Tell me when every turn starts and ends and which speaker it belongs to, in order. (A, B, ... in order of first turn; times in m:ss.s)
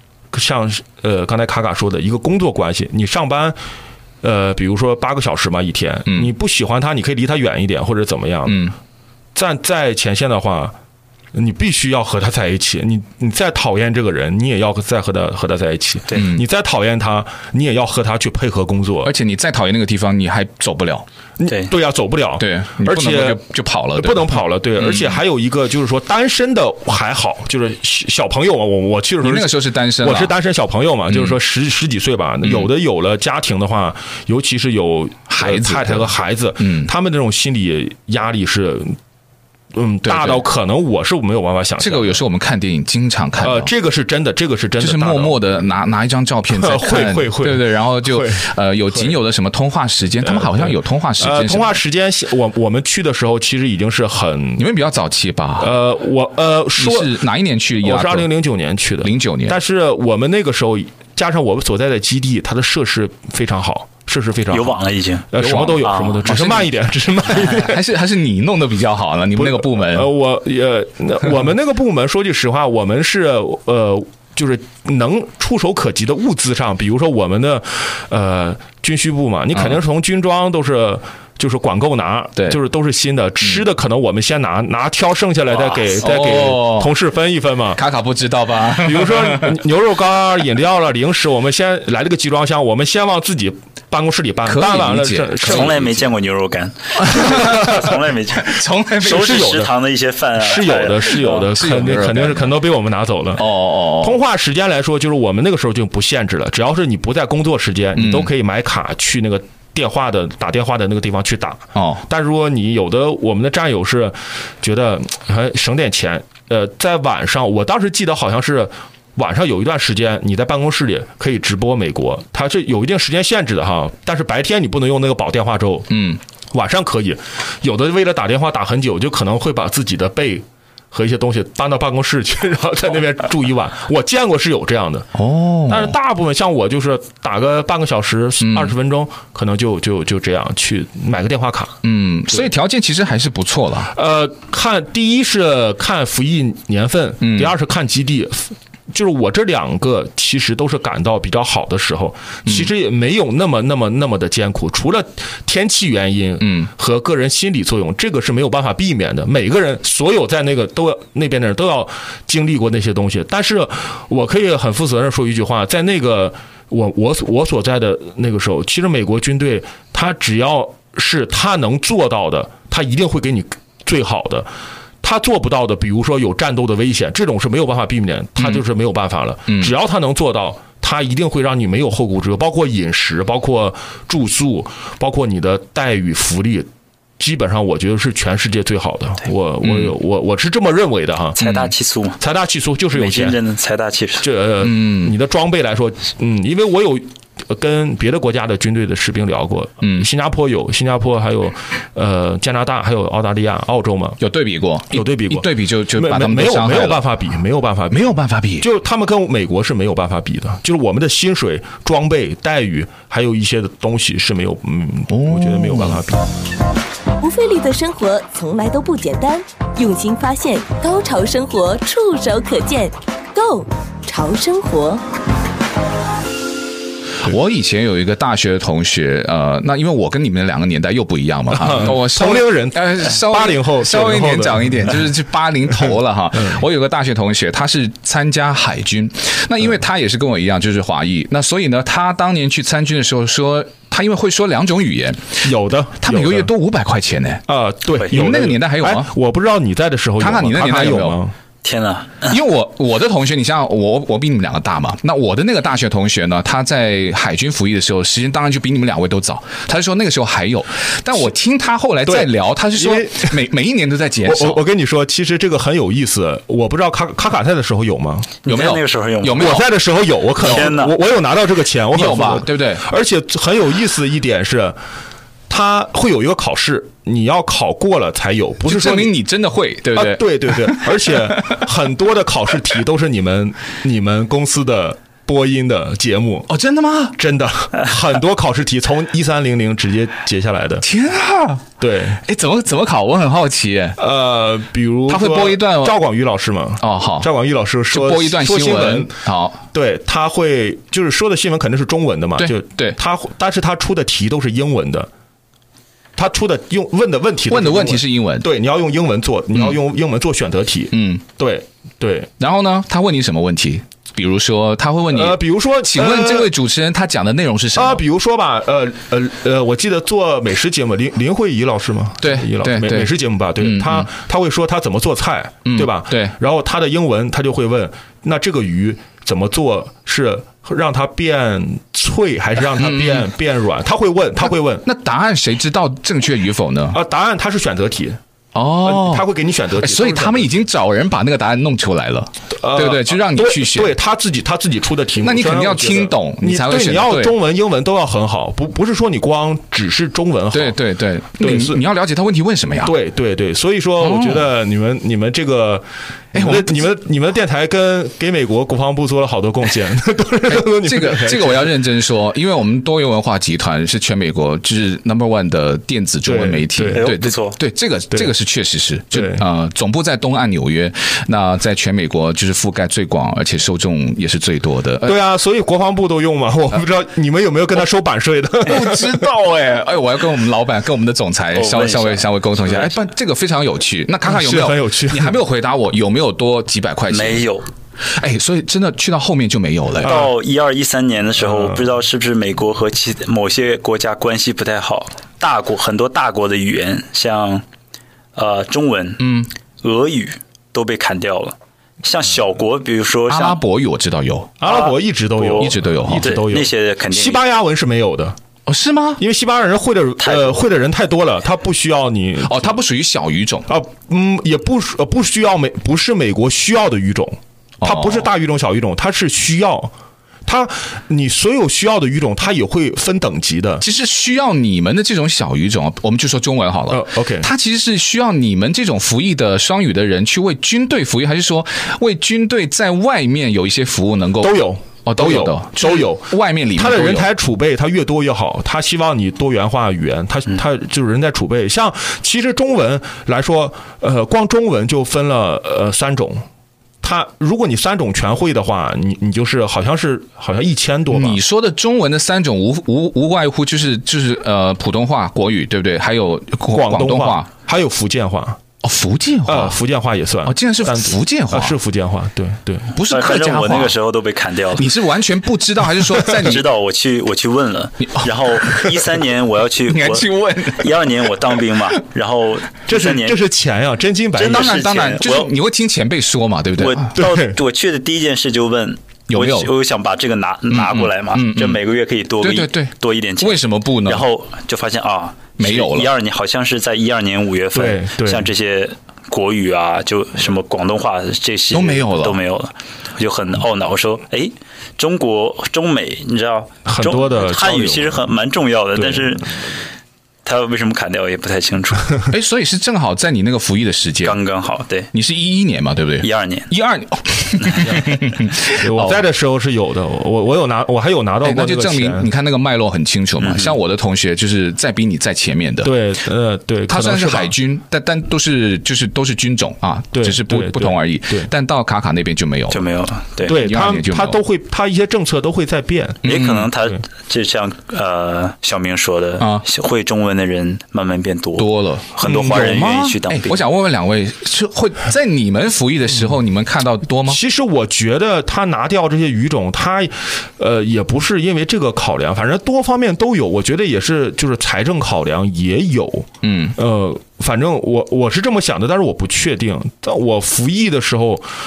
0:00.3-0:03.6 A
0:04.2-0:08.7 A
0:08.5-0:08.8 B
0:09.4-0:10.8 A
0:11.3-0:19.1 A
0:16.1-0:16.4 B
0:19.0-0:21.1 B
0:21.4-0:23.4 A
0:22.4-0:25.2 B
0:24.0-0:39.0 A
0:29.2-0:30.3 B
0:31.1-0:31.4 B
0:32.4-0:32.7 B
0:35.3-0:36.9 B
0:39.7-0:42.2 A
0:40.0-0:40.4 B
0:41.8-0:43.7 B
0:43.4-0:45.4 A
0:44.8-0:51.8 B
0:46.5-0:49.2 A
0:50.2-0:54.7 A
0:54.6-0:55.7 B
0:55.6-0:57.2 A
0:56.8-0:58.3 B
0:57.8-1:04.8 A
0:59.0-0:59.6 B
1:04.5-1:05.3 C
1:05.3-1:07.8 A
1:05.4-1:06.7 B
1:05.8-1:06.2 C
1:07.3-1:10.1 B
1:09.4-1:27.8 A
1:19.5-1:19.8 B
1:25.9-1:26.9 B
1:27.8-1:29.6 B
1:28.8-1:36.0 A
1:34.5-1:36.0 B
1:35.4-1:41.4 C
1:37.0-1:39.6 B
1:39.0-1:39.7 A
1:40.4-2:15.1 A
1:41.3-1:42.5 B
1:43.4-1:44.2 B
1:48.0-1:48.3 B
1:51.8-1:52.0 B
2:05.9-2:06.2 B
2:15.2-2:16.0 B
2:15.7-2:22.5 A
2:18.4-2:18.8 B
2:21.8-2:23.9 B
2:23.9-2:54.5 A
2:27.2-2:27.5 B
2:36.4-2:36.7 B
2:55.0-3:06.7 A
2:59.5-2:59.7 B
3:07.2-3:11.4 A
3:09.6-3:09.9 B
3:11.4-3:12.2 C
3:11.4-3:11.7 B
3:12.2-3:13.4 A
3:12.9-3:14.3 C
3:14.2-3:24.2 A
3:14.6-3:15.1 B
3:19.8-3:20.1 B
3:24.2-3:27.0 B
3:24.9-3:36.3 A
3:27.9-3:28.7 B
3:35.1-3:36.0 B
3:37.2-3:45.0 D
3:47.2-4:05.4 B
3:51.5-3:55.0 A
4:05.4-4:06.5 A
4:06.0-4:07.4 B
4:07.5-4:11.3 A
4:08.0-4:09.1 B
4:10.2-4:11.2 B
4:11.6-4:12.4 C
4:12.3-4:24.6 B
4:22.1-4:23.5 A
4:24.2-4:28.4 A
4:28.4-4:29.7 C
4:28.5-4:29.7 B
4:29.3-4:34.8 A
4:30.4-4:30.9 C
4:30.4-4:30.8 B
4:31.9-4:32.8 B
4:35.5-4:39.1 A
4:38.7-4:41.6 B
4:39.9-4:46.5 A
4:46.5-4:47.2 B
4:47.2-4:50.9 A
4:50.8-4:51.7 B
4:51.8-4:52.2 A
4:52.2-4:54.0 B
4:54.0-4:59.2 A
4:55.1-4:56.0 B
4:56.8-4:57.3 B
4:57.9-4:59.6 B
4:59.7-5:05.1 A
5:02.4-5:03.0 B
5:06.2-5:12.3 A
5:07.5-5:08.5 B
5:10.9-5:11.2 B
5:12.4-5:18.0 B
5:15.1-5:16.5 A
5:17.7-5:34.8 A
5:22.2-5:24.1 B
5:25.7-5:26.3 B
5:32.8-5:33.3 B
5:34.8-5:37.0 B
5:36.9-5:38.2 A
5:38.5-5:39.3 B
5:38.8-5:40.5 A
5:39.8-5:44.0 B
5:42.5-5:50.8 A
5:45.2-5:47.3 B
5:50.5-5:53.0 B
5:51.4-5:51.8 A
5:52.8-6:01.7 A
5:54.0-5:54.5 B
5:56.3-5:56.9 B
6:00.5-6:15.2 B
6:06.3-6:07.1 A
6:06.9-6:07.6 C
6:09.1-6:09.4 A
6:15.0-6:19.3 A
6:18.6-6:27.4 B
6:21.5-6:22.9 C
6:24.2-6:25.4 A
6:27.1-6:27.7 C
6:28.1-6:30.2 B
6:30.0-6:30.3 A
6:30.0-6:37.6 C
6:31.5-6:31.8 A
6:38.4-6:43.6 C
6:39.2-6:39.5 B
6:43.3-6:44.6 B
6:44.6-6:48.4 A
6:44.6-6:47.4 C
6:45.6-6:46.4 B
6:48.7-6:49.2 B
6:49.2-6:52.8 A
6:50.2-6:50.6 C
6:52.4-6:53.7 B
6:53.7-6:59.9 A
6:57.8-6:58.3 B
7:00.5-7:03.8 A
7:03.8-7:17.3 B
7:06.9-7:07.5 A
7:14.4-7:26.4 A
7:27.0-7:31.4 A
7:31.1-7:37.5 B
7:36.7-7:38.6 A
7:38.8-7:39.8 B
7:39.5-7:42.9 A
7:40.4-7:41.8 B
7:42.9-7:44.0 B
7:43.1-7:44.9 C
7:44.8-7:46.7 B
7:46.3-7:53.4 C
7:48.1-7:48.9 B
7:49.9-7:51.5 B
7:52.9-7:55.0 A
7:54.4-7:55.5 C
7:54.4-7:57.1 B
7:56.8-8:19.5 C
7:57.2-7:57.6 A
7:59.3-7:59.7 B
8:00.7-8:01.8 B
8:02.4-8:04.3 B
8:05.6-8:06.1 B
8:07.7-8:08.5 A
8:11.7-8:12.4 B
8:16.9-8:18.3 A
8:19.0-8:19.4 A
8:20.4-8:22.1 C
8:22.3-8:24.4 B
8:24.2-8:25.1 C
8:25.1-8:29.2 B
8:26.2-8:26.7 C
8:27.8-8:32.3 A
8:31.4-8:35.9 B
8:33.4-8:33.8 C
8:35.8-8:37.5 A
8:36.9-8:42.9 B
8:40.1-8:41.5 A
8:42.7-8:43.5 C
8:43.4-8:44.4 B
8:43.4-8:46.2 A
8:46.2-8:46.7 B
8:46.2-8:53.6 C
8:49.4-8:49.6 B
8:51.6-8:57.4 B
8:52.2-8:52.8 A
8:57.3-9:11.5 A
9:06.4-9:06.8 B